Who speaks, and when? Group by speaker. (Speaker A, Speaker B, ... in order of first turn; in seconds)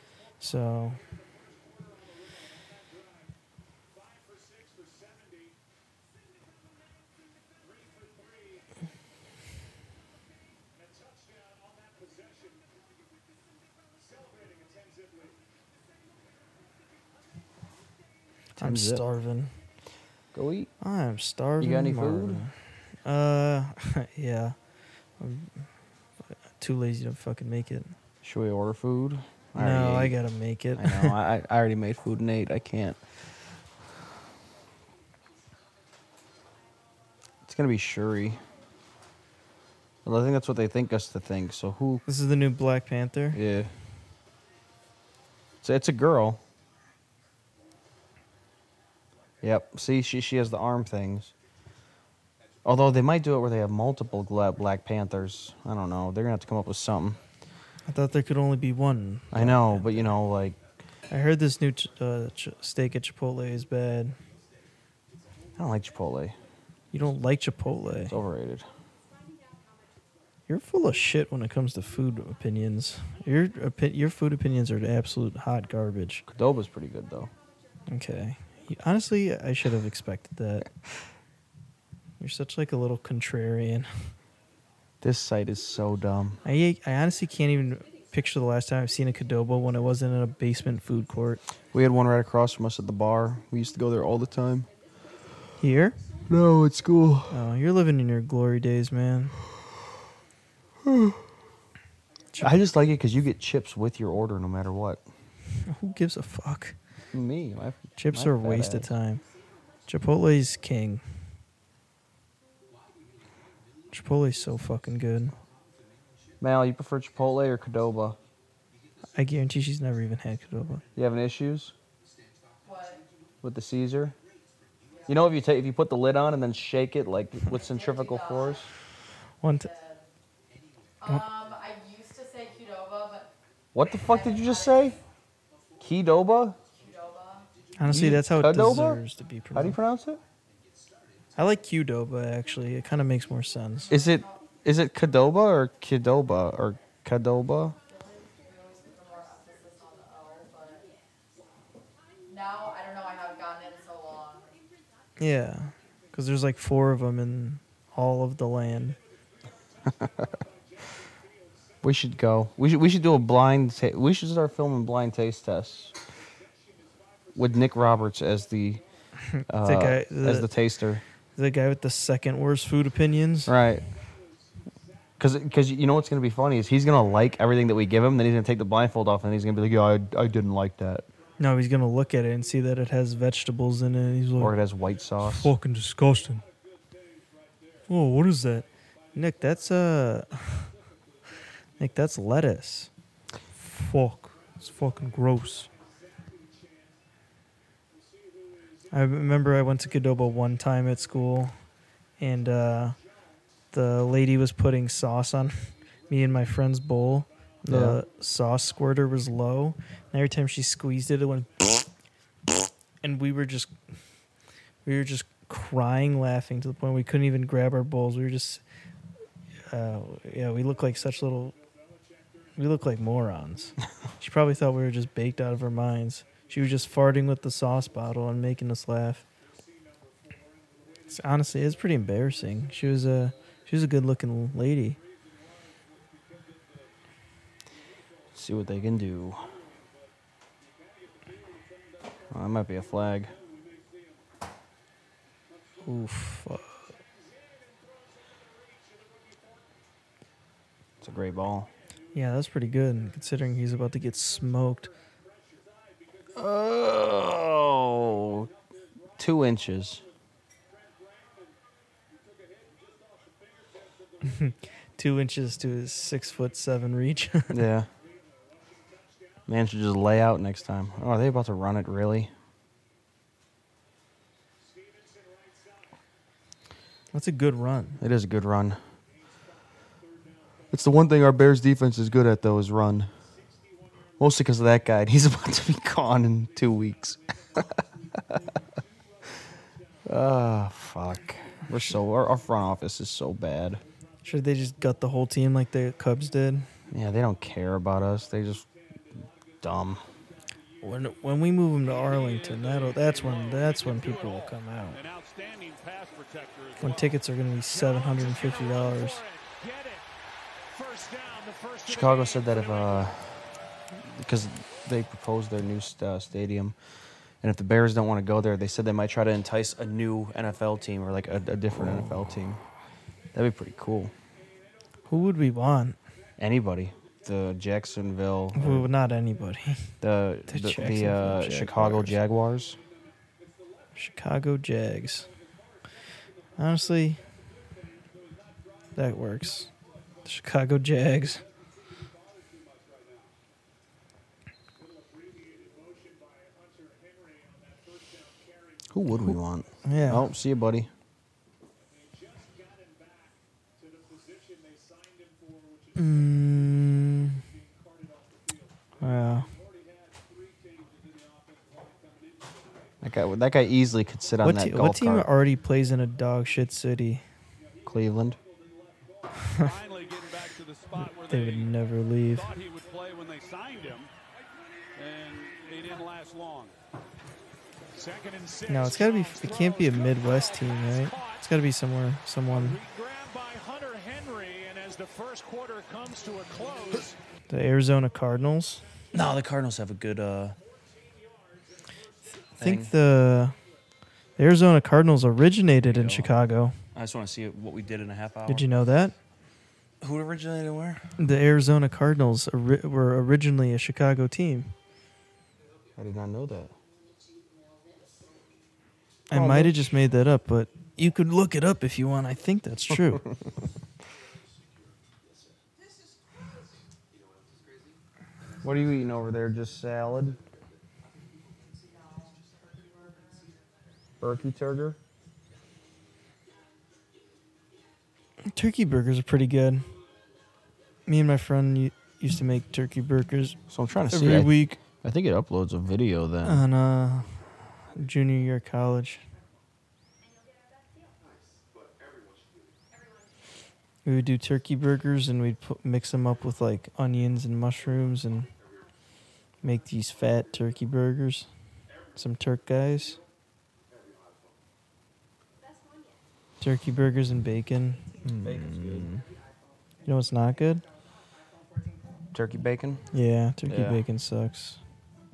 Speaker A: 0.4-1.0, 18.6-19.5, 20.8-24.6, 25.2-25.7, 26.6-27.9, 29.6-31.2, 42.1-43.4, 57.9-60.1, 61.1-64.2, 66.9-68.2, 70.5-76.2, 77.9-80.7, 82.2-83.9, 86.5-91.4, 95.6-96.0, 97.3-99.4, 105.6-106.8, 108.0-109.2, 109.9-111.0, 113.9-115.3, 119.2-120.8, 129.4-129.7, 137.8-139.8, 141.4-143.9, 155.2-159.0, 169.3-170.5, 171.4-173.6, 181.4-184.6, 185.2-186.4, 187.9-190.7, 191.8-192.9, 193.6-195.7, 198.9-201.6, 202.2-203.0, 203.7-211.9, 213.0-213.7, 214.8-218.6, 219.7-221.6, 222.6-229.2, 231.1-235.0, 245.8-246.8, 252.1-254.9, 264.2-267.6, 277.1-278.0, 294.2-296.7, 300.8-305.0, 306.8-309.2, 325.1-326.0, 328.6-329.9, 330.5-332.2, 334.0-335.3, 336.6-337.2, 339.0-339.7, 340.2-341.4, 349.1-350.3, 355.9-357.4, 359.0-359.5, 364.4-367.2, 369.4-369.7, 371.0-372.6, 378.7-382.8, 387.5-388.9, 392.6-393.6, 394.4-396.8, 398.5-399.1, 401.2-404.7, 409.3-413.3, 428.4-429.9, 431.1-434.8, 436.4-439.2, 444.1-448.5, 449.6-451.5, 452.1-453.2, 456.6-459.2, 460.1-460.9, 463.1-464.8
Speaker B: 18.6-19.0, 20.3-20.7, 21.6-22.4, 28.2-30.2, 30.8-33.0, 37.5-38.4, 40.0-42.0, 43.3-43.7, 45.6-46.4, 49.4-51.3, 52.6-57.2, 59.3-60.6, 65.6-66.4, 68.1-68.7, 76.3-77.3, 85.0-86.4, 91.7-94.7, 96.3-97.4, 100.8-101.2, 102.4-105.0, 107.1-108.9, 116.4-118.2, 121.0-121.7, 123.4-124.2, 125.1-128.7, 133.7-135.0, 135.8-136.6, 137.8-139.0, 139.5-140.2, 143.9-147.8, 159.9-160.3, 161.8-165.9, 167.3-168.8, 169.5-171.0, 173.5-173.8, 175.2-181.1, 184.4-185.5, 207.7-208.0, 238.3-239.5, 242.3-243.3, 251.0-251.7, 256.4-258.5, 259.2-260.0, 267.5-267.9, 269.5-272.3, 278.0-278.8, 280.7-283.1, 284.2-288.6, 290.1-293.8, 296.9-298.7, 299.6-300.0, 311.9-313.4, 313.9-316.8, 317.4-322.6, 323.3-324.1, 326.4-328.9, 330.0-332.8, 348.9-350.9, 363.0-365.3, 367.9-368.4, 389.1-390.6, 392.6-392.9, 395.8-396.3, 396.9-398.7, 400.0-401.1, 406.0-406.7, 409.3-409.8, 418.6-420.4, 424.2-425.0, 433.7-436.6, 458.4-459.2, 462.3-463.0, 463.7-464.0
Speaker C: 122.6-123.0, 124.9-125.3, 127.5-128.7, 129.6-130.1, 131.0-133.3, 134.0-135.0, 136.7-137.5, 143.9-144.5, 147.9-150.9, 152.3-154.6, 422.0-423.5
Speaker D: 302.0-307.0, 307.7-310.1, 310.7-313.1, 369.6-371.7, 372.4-374.1, 375.0-376.7, 377.9-381.4, 382.5-387.2